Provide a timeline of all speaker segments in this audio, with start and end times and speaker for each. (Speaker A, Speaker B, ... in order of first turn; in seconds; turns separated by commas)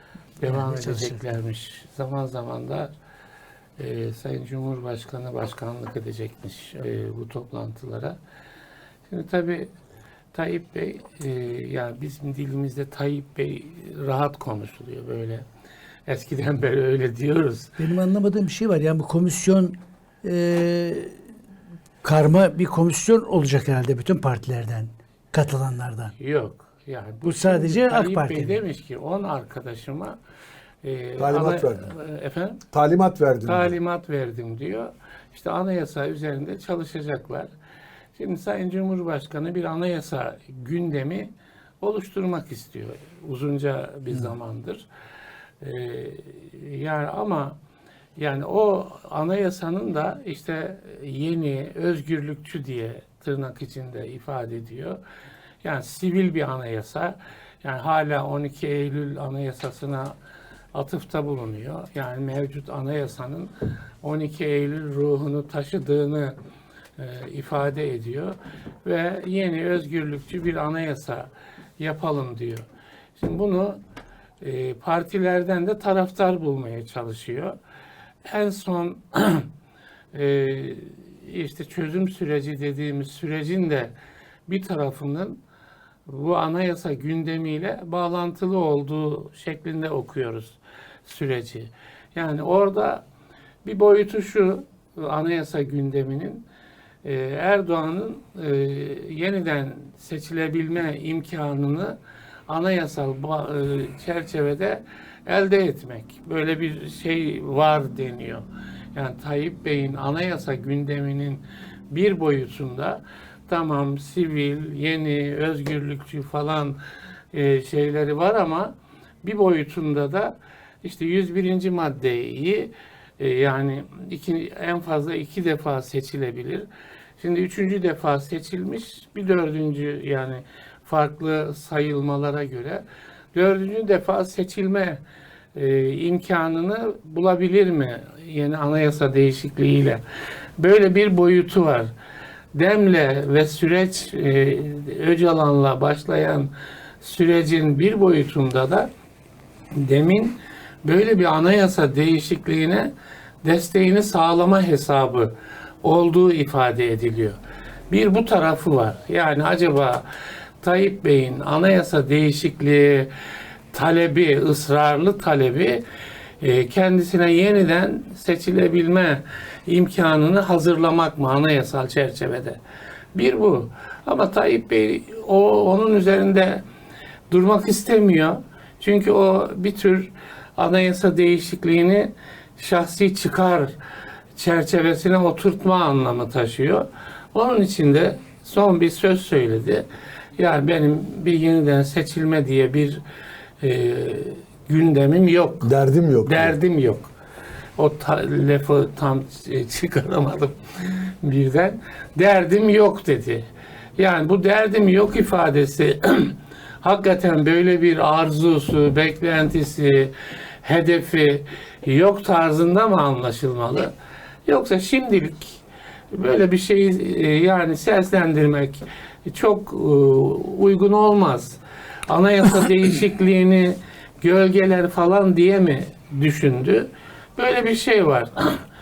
Speaker A: 0.4-2.9, Speaker B: 0.5-1.2, Speaker A: 3.8-8.2, Speaker A: 9.1-9.7, Speaker A: 10.3-15.4, Speaker A: 16.1-17.8, Speaker B: 17.8-21.1, Speaker B: 22.0-26.1, Speaker A: 26.2-30.2, Speaker B: 27.2-28.6, Speaker A: 30.8-32.6, Speaker C: 31.2-31.9, Speaker C: 32.7-33.7, Speaker A: 33.4-37.5, Speaker A: 38.1-44.9, Speaker A: 45.6-47.6, Speaker A: 48.2-55.0, Speaker A: 55.6-60.1, Speaker A: 60.7-66.4, Speaker A: 67.0-72.6, Speaker A: 73.2-73.8, Speaker A: 74.4-77.6, Speaker A: 78.2-79.5, Speaker A: 80.1-83.9, Speaker A: 84.5-85.4, Speaker A: 86.1-93.0, Speaker A: 93.6-96.4, Speaker A: 97.0-102.0, Speaker A: 102.5-116.8, Speaker A: 117.3-126.7, Speaker A: 127.2-135.0, Speaker A: 135.5-140.0, Speaker A: 140.6-141.9, Speaker A: 142.5-148.9, Speaker A: 149.8-152.9, Speaker A: 153.4-157.4, Speaker A: 157.9-160.1, Speaker A: 160.6-163.1, Speaker A: 163.7-165.8, Speaker A: 166.4-172.6, Speaker A: 173.1-176.6, Speaker A: 177.3-183.7, Speaker A: 184.4-189.8, Speaker A: 190.4-193.0, Speaker A: 193.6-195.7, Speaker C: 195.6-196.6, Speaker A: 196.2-197.1, Speaker A: 197.8-213.9, Speaker A: 214.5-215.6, Speaker A: 216.1-228.6